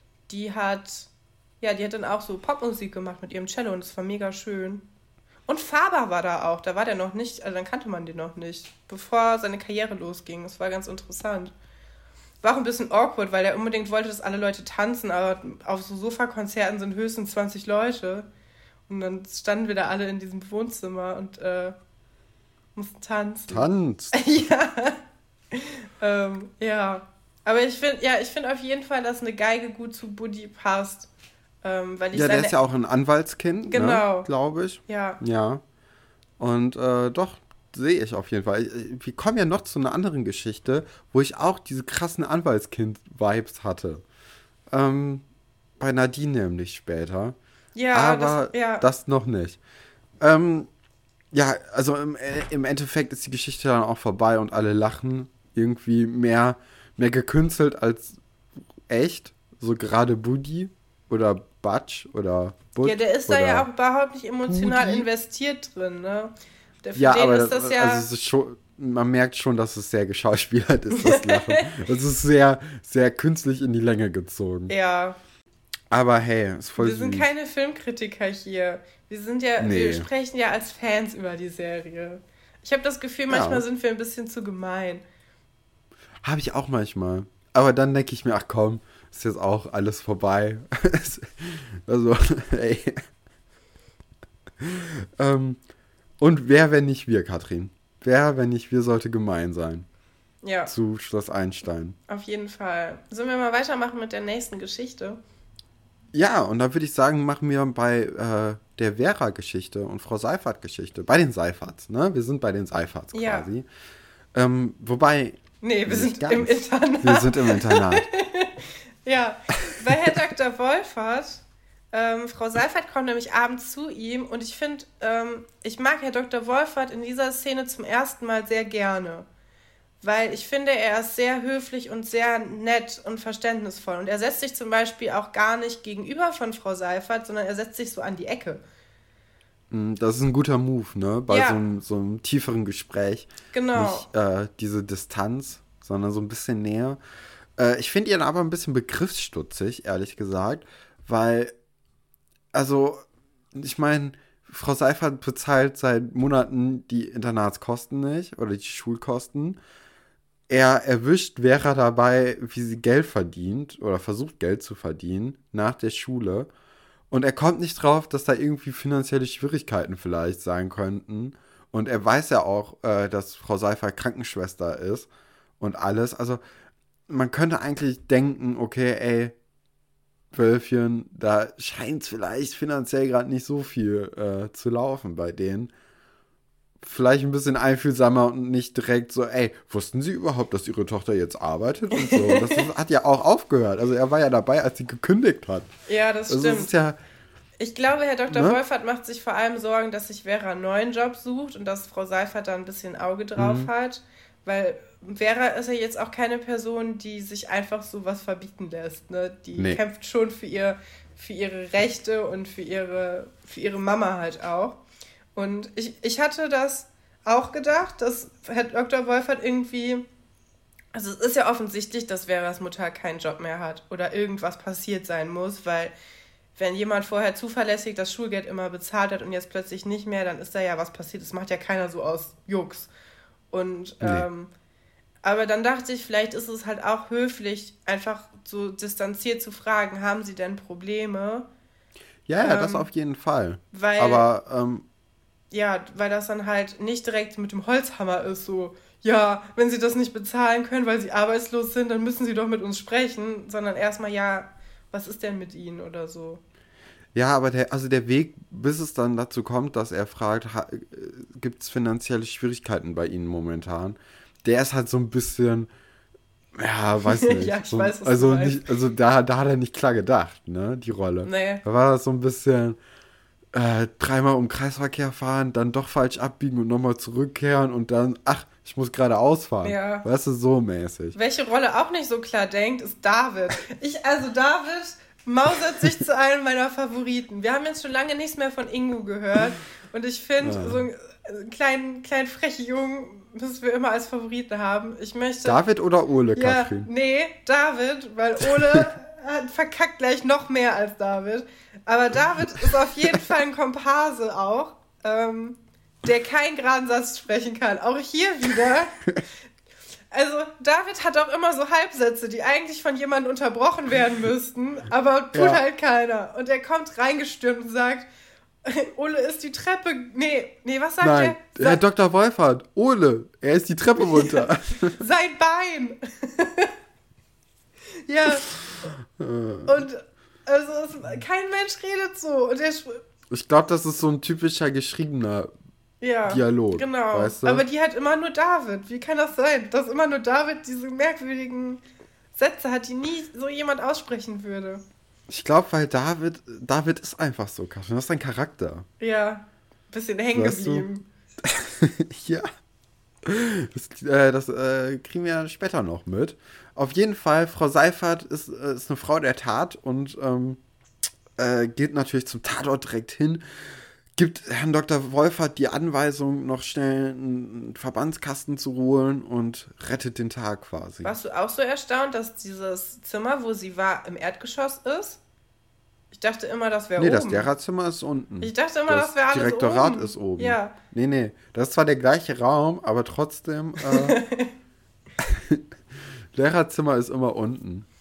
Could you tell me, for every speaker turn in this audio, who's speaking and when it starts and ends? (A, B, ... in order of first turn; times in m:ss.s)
0:00.3-0:01.1 A
0:01.6-0:04.9 A
0:05.5-0:11.5 A
0:12.4-0:18.3 A
0:18.9-0:21.8 A
0:22.8-0:25.0 A
0:23.5-0:24.2 B
0:25.5-0:31.1 A
0:31.6-0:32.5 A
0:32.1-0:35.6 B
0:33.7-0:34.3 A
0:34.9-0:35.2 A
0:36.4-0:44.0 B
0:44.7-0:45.2 B
0:45.8-0:47.4 B
0:47.8-0:48.9 A
0:47.9-0:49.6 B
0:50.2-0:50.7 B
0:51.3-0:58.2 B
0:58.9-1:03.7 B
1:02.8-1:08.1 A
1:04.5-1:05.1 B
1:07.0-1:14.7 B
1:10.9-1:11.7 A
1:14.7-1:15.2 A
1:15.9-1:17.3 B
1:16.8-1:25.0 A
1:19.6-1:20.1 B
1:23.3-1:23.6 B
1:26.2-1:33.0 B
1:34.6-1:35.6 B
1:36.2-1:39.9 B
1:40.4-1:40.7 A
1:40.7-1:42.0 B
1:42.1-1:45.2 A
1:46.1-1:53.7 B
1:53.1-1:53.5 A
1:54.3-1:58.1 B
1:55.6-2:09.3 A
2:10.0-2:18.6 A
2:19.7-2:27.0 B
2:21.3-2:21.6 A
2:23.5-2:24.1 A
2:27.6-2:31.5 B
2:32.5-2:39.6 B
2:40.5-2:46.5 B
2:47.1-2:55.1 B
2:55.6-2:56.4 B
2:57.1-2:59.4 B
3:00.3-3:05.7 B
3:06.8-3:15.7 B
3:11.9-3:12.7 A
3:15.9-3:16.7 A
3:16.3-3:17.0 B
3:17.6-3:34.8 A
3:18.3-3:18.6 B
3:23.4-3:23.7 B
3:35.4-3:40.0 A
3:40.9-3:45.9 A
3:46.6-3:52.9 A
3:53.5-3:54.5 A
3:54.0-3:54.3 B
3:55.2-4:01.5 A
4:02.3-4:04.8 B
4:02.4-4:02.9 A
4:03.7-4:04.3 A
4:05.5-4:16.4 A
4:17.1-4:25.7 B
4:26.6-4:32.8 B
4:27.0-4:28.7 A
4:31.2-4:31.6 A
4:33.5-4:41.2 B
4:39.6-4:40.0 A
4:41.2-4:55.6 A
4:50.4-4:50.9 B
4:55.4-4:56.9 B
4:56.4-5:09.0 A
5:02.7-5:03.3 B
5:10.1-5:18.1 A
5:15.3-5:15.6 B
5:18.6-5:21.8 A
5:21.0-5:25.0 B
5:24.0-5:26.7 A
5:28.1-5:28.5 A
5:28.4-5:29.8 B
5:29.7-5:33.0 A
5:33.3-5:35.5 B
5:36.0-5:41.8 A
5:36.3-5:37.6 B
5:42.4-5:44.8 A
5:45.3-5:48.9 B
5:49.0-5:51.0 A
5:50.3-5:50.9 B
5:51.4-5:52.4 B
5:53.2-6:00.6 B
6:01.4-6:03.4 B
6:04.2-6:11.1 B
6:11.0-6:15.2 A
6:16.1-6:17.5 A
6:17.0-6:24.2 B
6:18.4-6:20.8 A
6:23.9-6:24.5 A
6:25.2-6:25.6 B
6:26.3-6:27.9 B